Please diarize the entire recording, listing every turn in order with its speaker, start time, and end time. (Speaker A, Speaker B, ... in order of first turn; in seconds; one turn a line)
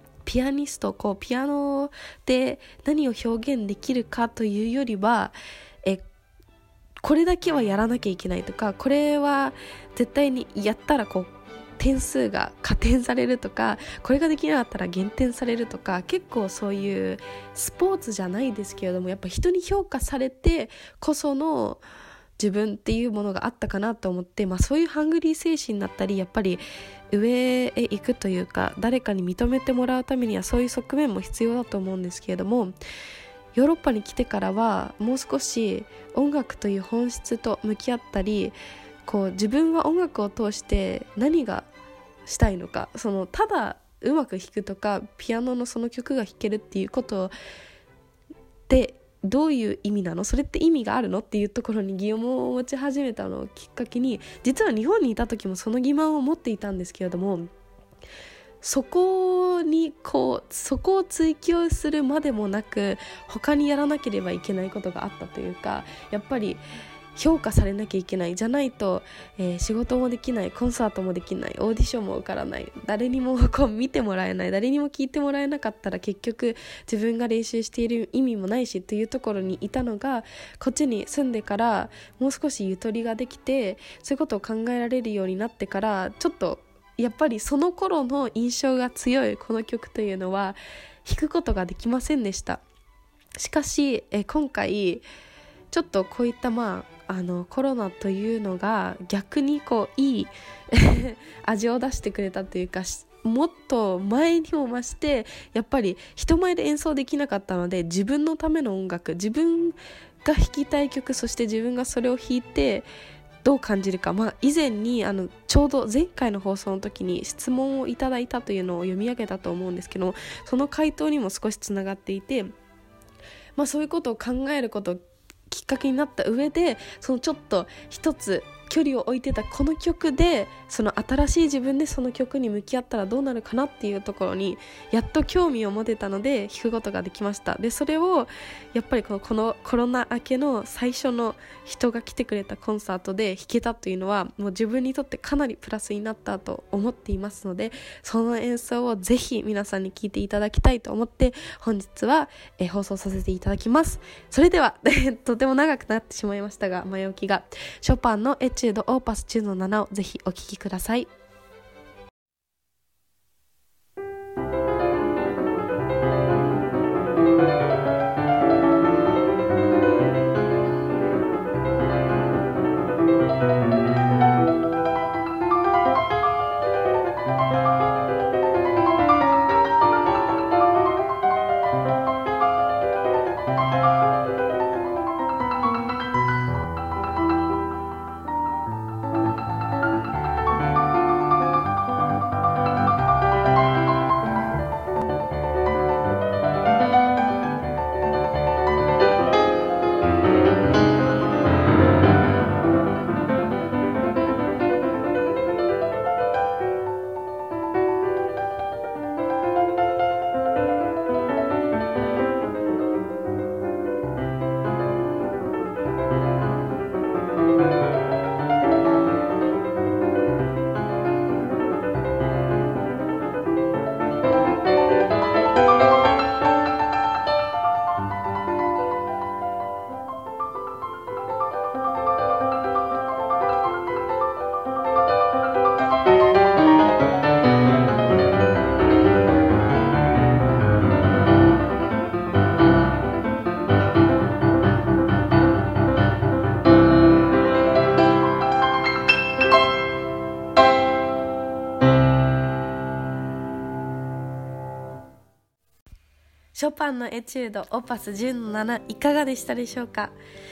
Speaker A: 0.2-6.0
Speaker A: 7.0-21.8
Speaker A: 22.4-32.7
Speaker A: 33.5-41.7
Speaker A: 42.3-47.3
Speaker A: 48.7-57.5
Speaker A: 58.6-66.6
Speaker A: 67.2-92.6
Speaker A: 93.4-95.1
Speaker A: 95.7-112.9
Speaker A: 113.4-122.5
Speaker A: 123.6-161.1
Speaker A: 256.6-260.1